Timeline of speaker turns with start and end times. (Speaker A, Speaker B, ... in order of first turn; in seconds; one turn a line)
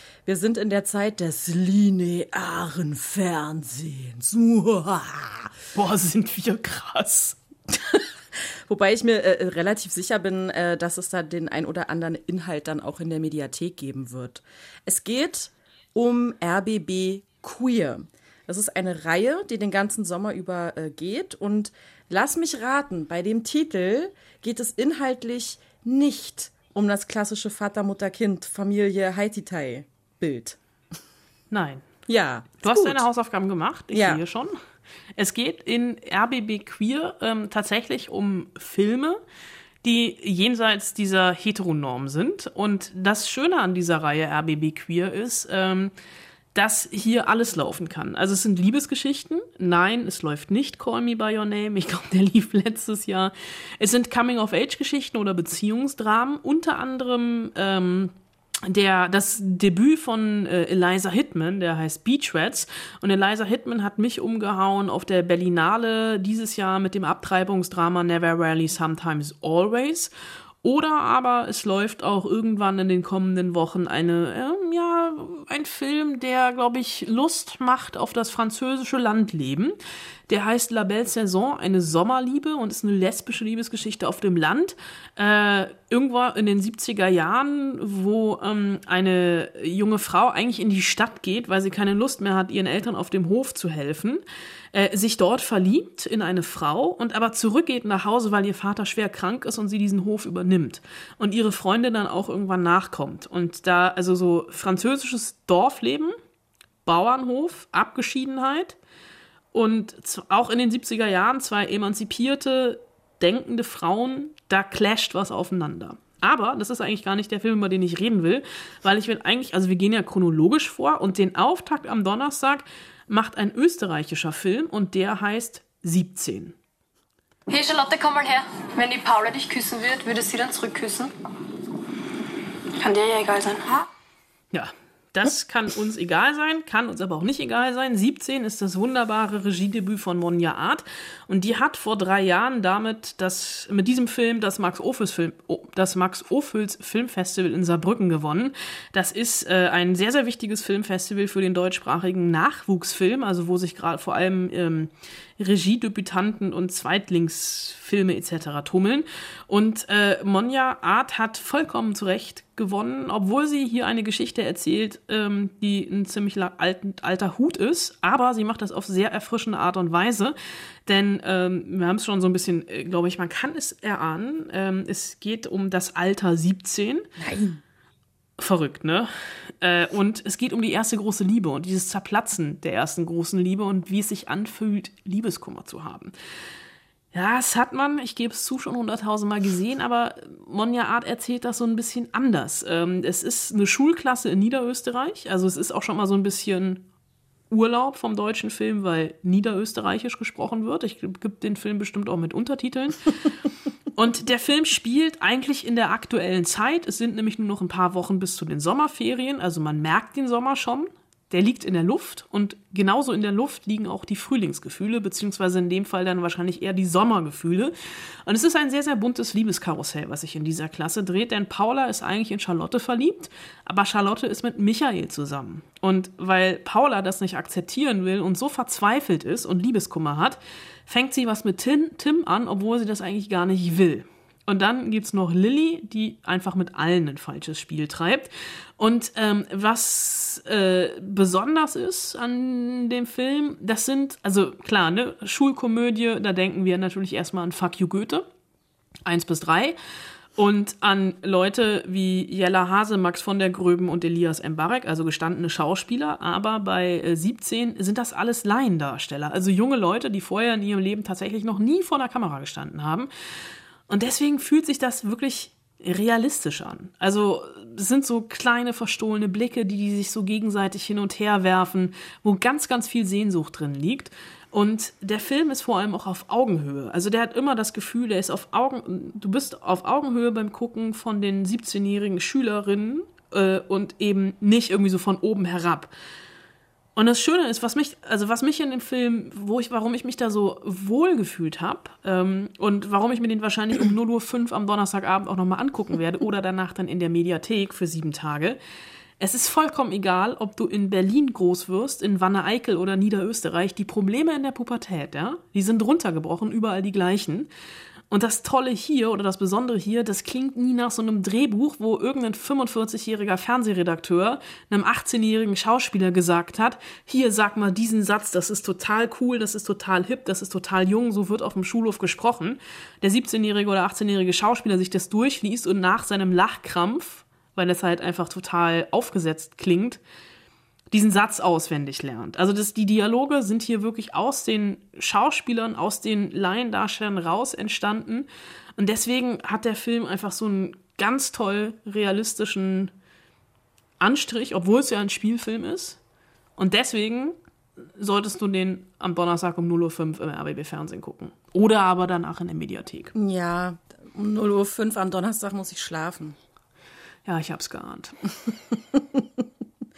Speaker A: 0.2-5.5
Speaker B: 5.8-7.4
Speaker A: 7.7-8.0
Speaker A: 8.7-30.6
Speaker B: 31.5-31.9
Speaker A: 32.1-33.0
Speaker B: 32.6-34.5
Speaker A: 33.9-34.2
Speaker B: 35.1-39.2
Speaker B: 39.8-45.9
Speaker B: 46.5-70.1
Speaker B: 70.6-79.8
Speaker B: 80.3-94.2
Speaker B: 94.7-106.1
Speaker B: 106.8-108.8
Speaker B: 109.5-126.5
Speaker C: 127.5-131.1
Speaker C: 132.8-133.9
Speaker B: 134.5-170.3
Speaker B: 170.9-177.1
Speaker A: 177.2-177.6
Speaker B: 178.4-186.1
Speaker B: 187.1-196.9
Speaker B: 197.5-203.2
Speaker B: 203.9-248.2
Speaker B: 249.1-249.8
Speaker B: 250.4-263.1
Speaker B: 263.9-285.9
Speaker B: 286.9-298.6
Speaker B: 299.2-307.5
Speaker B: 308.1-330.0
Speaker B: 330.9-342.9
Speaker B: 344.0-346.0
Speaker B: 346.6-353.1
Speaker A: 353.1-356.4
Speaker B: 357.2-358.1
Speaker A: 358.9-359.2